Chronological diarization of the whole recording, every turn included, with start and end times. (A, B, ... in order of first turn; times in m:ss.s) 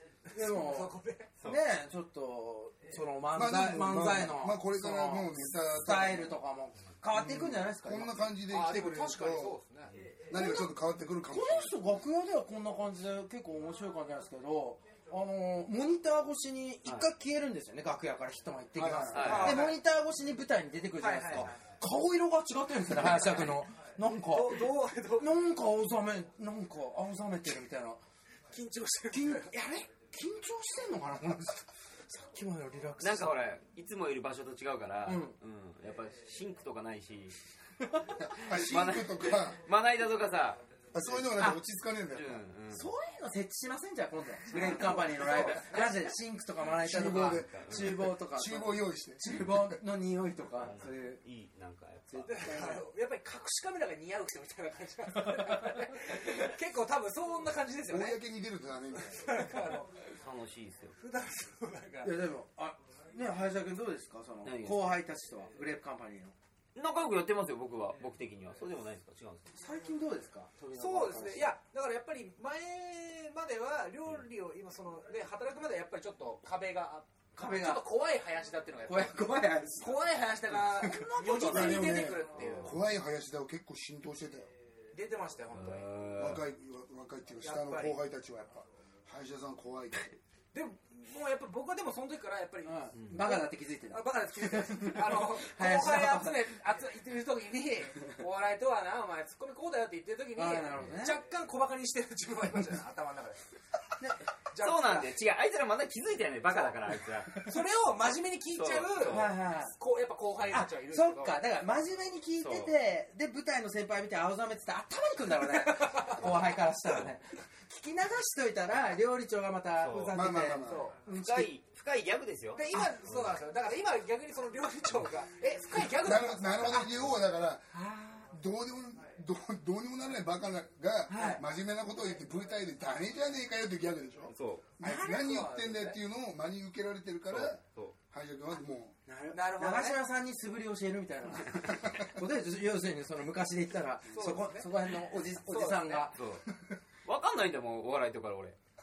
0:00.3-0:01.3 A
0:00.3-0:08.3 B
0:03.3-0:06.4 C
0:07.1-0:09.6 C
0:08.5-0:10.0 A
0:10.3-0:11.9 C
0:10.3-0:10.7 B
0:11.3-0:28.0 B
0:18.8-0:19.6 C
0:18.8-0:19.8 A
0:19.1-0:19.7 D
0:21.0-0:21.6 A
0:24.2-0:25.3 A
0:28.5-0:29.5 A
0:29.1-0:33.4 B
0:33.0-0:37.4 D
0:35.0-0:35.4 B
0:38.2-0:39.6 C
0:38.3-0:41.2 D
0:40.9-0:42.4 C
0:42.1-0:42.9 D
0:42.7-0:51.2 B
0:44.5-0:45.8 A
0:46.7-0:49.8 C
0:47.3-0:48.0 D
0:50.6-0:52.5 D
0:52.1-0:52.8 B
0:52.2-0:58.2 A
0:57.9-0:59.5 C
0:59.0-1:00.1 A
1:00.2-1:01.0 D
1:01.0-1:02.2 A
1:02.0-1:06.3 B
1:04.4-1:04.8 D
1:06.8-1:09.5 D
1:09.5-1:11.6 B
1:10.7-1:22.8 A
1:17.4-1:17.9 B
1:18.8-1:22.4 B
1:21.4-1:24.5 C
1:24.9-1:25.9 A
1:25.5-1:26.5 D
1:26.2-1:30.2 C
1:27.4-1:28.0 A
1:30.5-1:43.4 A
1:32.6-1:36.4 B
1:33.0-1:33.3 D
1:40.4-1:41.2 B
1:44.0-1:44.2 B
1:44.5-1:45.1 A
1:44.6-1:47.4 D
1:46.5-1:46.8 A
1:47.4-1:51.4 A
1:48.5-1:49.3 D
1:49.1-1:49.8 B
1:50.5-2:01.5 B
1:52.4-1:52.7 D
1:55.5-1:56.4 A
1:59.8-2:00.3 D
2:00.1-2:00.9 C
2:01.1-2:03.4 D
2:02.6-2:07.0 A
2:05.9-2:07.7 C
2:07.7-2:08.3 A
2:08.3-2:19.0 C
2:11.1-2:11.4 A
2:11.1-2:11.4 B
2:14.3-2:14.7 D
2:14.8-2:15.6 B
2:14.9-2:16.0 A
2:17.3-2:18.0 D
2:19.1-2:26.2 B
2:19.3-2:20.0 A
2:24.1-2:24.7 A
2:25.4-2:26.2 A
2:26.1-2:26.4 D
2:27.0-2:28.6 D